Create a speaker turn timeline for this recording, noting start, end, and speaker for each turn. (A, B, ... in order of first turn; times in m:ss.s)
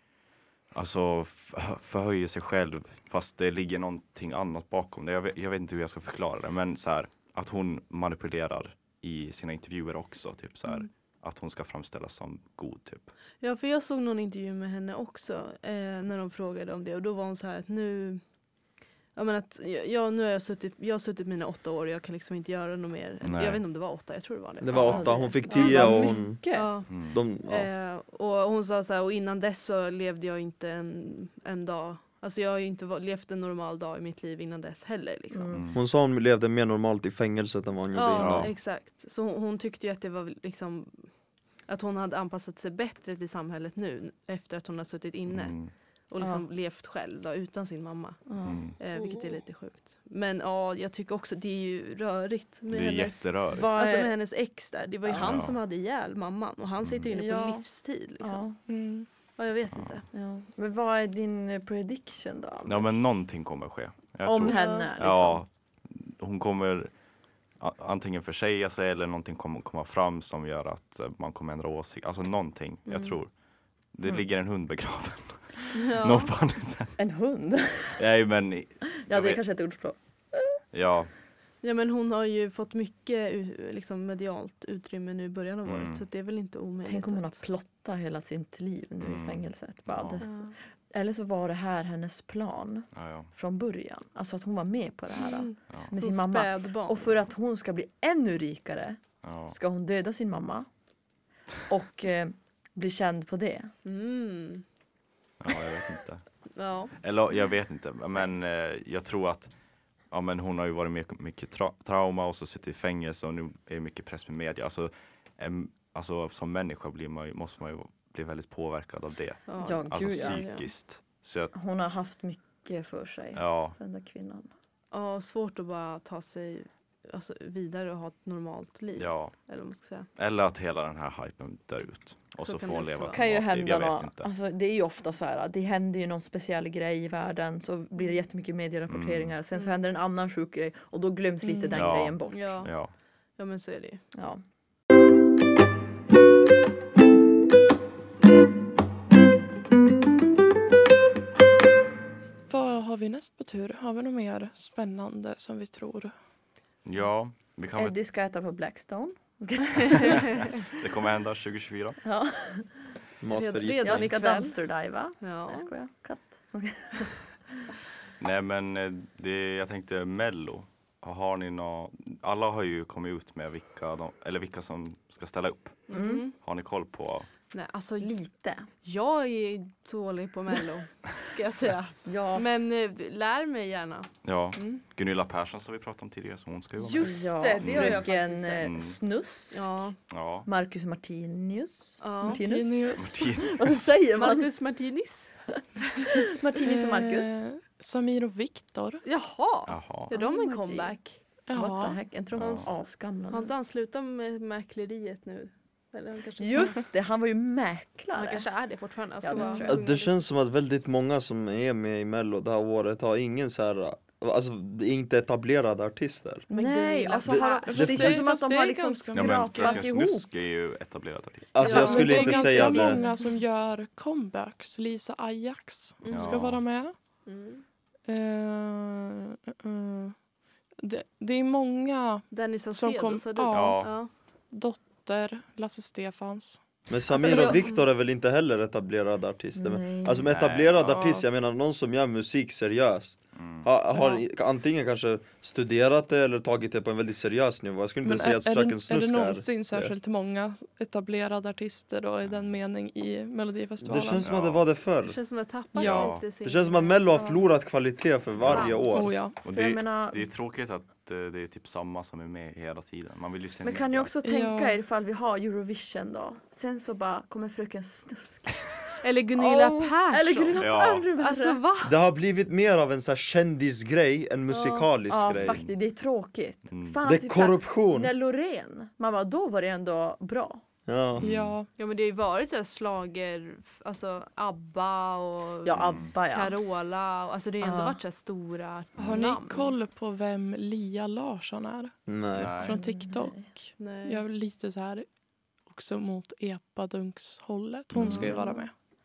0:00.7-0:13.1 A
0:13.4-0:18.2 B
0:19.1-0:26.0 B
0:23.2-0:23.6 A
0:24.6-0:26.4 C
0:24.7-0:25.0 A
0:24.8-0:26.7 D
0:26.5-0:35.6 B
0:26.9-0:27.2 A
0:26.9-0:27.7 C
0:35.3-0:35.6 D
0:35.5-0:35.8 A
0:35.7-0:38.5 C
0:37.9-0:41.1 B
0:38.2-0:38.5 A
0:41.7-0:58.4 B
0:45.3-0:45.7 A
0:46.2-0:46.4 D
0:48.2-0:49.2 D
0:48.4-0:48.8 A
0:52.7-0:53.7 A
0:53.5-0:54.1 D
0:55.0-0:55.4 D
0:55.2-0:55.6 A
0:56.8-0:57.1 A
0:57.1-0:57.6 D
0:58.2-0:58.6 D
0:58.7-0:59.1 E
0:59.4-1:00.0 B
0:59.7-1:00.0 A
1:00.1-1:02.9 D
1:02.6-1:06.9 A
1:04.2-1:05.4 D
1:04.4-1:04.9 B
1:07.6-1:13.3 A
1:12.8-1:13.2 B
1:13.9-1:17.0 A
1:15.8-1:16.3 B
1:17.0-1:18.0 D
1:18.0-1:19.4 A
1:19.0-1:20.6 D
1:20.7-1:21.1 A
1:21.6-1:27.4 B
1:25.6-1:26.0 A
1:26.8-1:40.7 D
1:29.0-1:30.2 A
1:30.2-1:30.5 B
1:32.9-1:33.3 A
1:35.1-1:37.1 B
1:39.2-1:39.6 A
1:41.7-1:43.7 D
1:43.8-1:44.6 B
1:45.4-1:46.2 A
1:46.5-1:46.9 B
1:47.0-1:49.5 A
1:50.1-2:01.5 A
1:59.5-2:00.6 B
1:59.6-2:00.4 D
2:01.5-2:04.5 D
2:03.3-2:03.8 A
2:04.9-2:10.1 B
2:09.0-2:09.3 A
2:10.2-2:14.3 A
2:12.4-2:13.2 B
2:13.1-2:22.7 D
2:18.9-2:19.3 A
2:21.4-2:21.8 E
2:21.7-2:22.9 A
2:22.3-2:22.7 B
2:23.4-2:24.0 B
2:24.1-2:24.4 D
2:32.5-2:36.1 E
2:36.8-2:37.9 A
2:37.8-2:40.2 D
2:40.0-2:42.0 A
2:42.0-2:42.9 D
2:43.2-2:44.1 C
2:43.3-2:44.6 B
2:43.8-2:47.2 D
2:45.2-2:45.7 B
2:48.2-2:57.3 A
2:55.9-2:56.3 B
2:55.9-2:56.2 D
2:57.5-2:58.2 B
2:58.0-2:58.7 D
2:58.8-3:04.8 B
3:02.0-3:02.4 D
3:04.2-3:08.1 A
3:06.8-3:08.7 B
3:06.9-3:09.7 D
3:08.6-3:09.0 A
3:09.5-3:10.0 B
3:10.1-3:10.5 A
3:10.4-3:14.5 D
3:12.0-3:12.4 B
3:12.2-3:13.4 E
3:13.0-3:13.9 A
3:14.1-3:15.8 B
3:16.0-3:17.4 D
3:16.6-3:19.0 E
3:19.0-3:21.2 B
3:19.7-3:20.1 A
3:20.1-3:21.0 D
3:21.5-3:22.0 E
3:21.5-3:23.5 D
3:22.3-3:22.7 A
3:22.4-3:22.7 B
3:23.3-3:26.8 B
3:26.4-3:28.4 D
3:28.1-3:30.2 B
3:29.2-3:29.8 D
3:29.6-3:36.4 C
3:36.5-3:40.3 D
3:36.5-3:38.0 B
3:37.3-3:38.2 C
3:37.3-3:39.8 E
3:39.1-3:41.8 A
3:41.5-3:43.0 C
3:41.6-3:43.2 D
3:41.6-3:47.0 E
3:46.0-3:46.4 B
3:46.1-3:46.6 A
3:47.2-3:47.6 B
3:48.0-3:50.2 E
3:50.8-3:54.0 E
3:52.3-3:54.1 B
3:53.5-3:53.9 A
3:54.5-3:56.6 E
3:56.9-4:09.9 C
3:57.1-3:57.6 D
3:57.1-3:57.9 B
3:59.5-4:00.3 D
4:00.2-4:00.9 A
4:00.8-4:01.2 E
4:03.4-4:03.7 A
4:08.0-4:14.3 E
4:12.2-4:12.5 A
4:13.8-4:15.2 C
4:14.2-4:14.6 A
4:15.0-4:17.3 B
4:15.8-4:16.2 E
4:15.8-4:16.2 A
4:16.4-4:19.2 C
4:17.1-4:17.4 D
4:18.4-4:24.1 A
4:18.5-4:18.9 B
4:18.9-4:19.4 E
4:19.4-4:20.3 D
4:23.6-4:28.6 D
4:24.2-4:24.8 E
4:29.0-4:30.6 B
4:29.4-4:31.6 D
4:30.6-4:31.1 A
4:31.2-4:32.0 B
4:31.8-4:35.6 C
4:34.5-4:34.9 B
4:35.1-4:40.6 D
4:35.3-4:35.7 A
4:36.7-4:37.0 A
4:37.0-4:38.1 C
4:40.8-4:41.2 C
4:41.2-4:41.6 A
4:41.2-4:41.7 E
4:41.8-4:49.7 B
4:45.6-4:46.6 D
4:45.8-4:46.1 A
4:47.6-4:48.0 D
4:49.0-4:51.9 E
4:52.1-4:52.5 C
4:52.3-4:52.8 A
4:52.6-4:55.0 E
4:52.6-4:53.5 D
4:53.8-4:54.2 B
4:55.7-4:58.7 E
4:57.9-4:58.4 A
4:58.0-4:58.5 D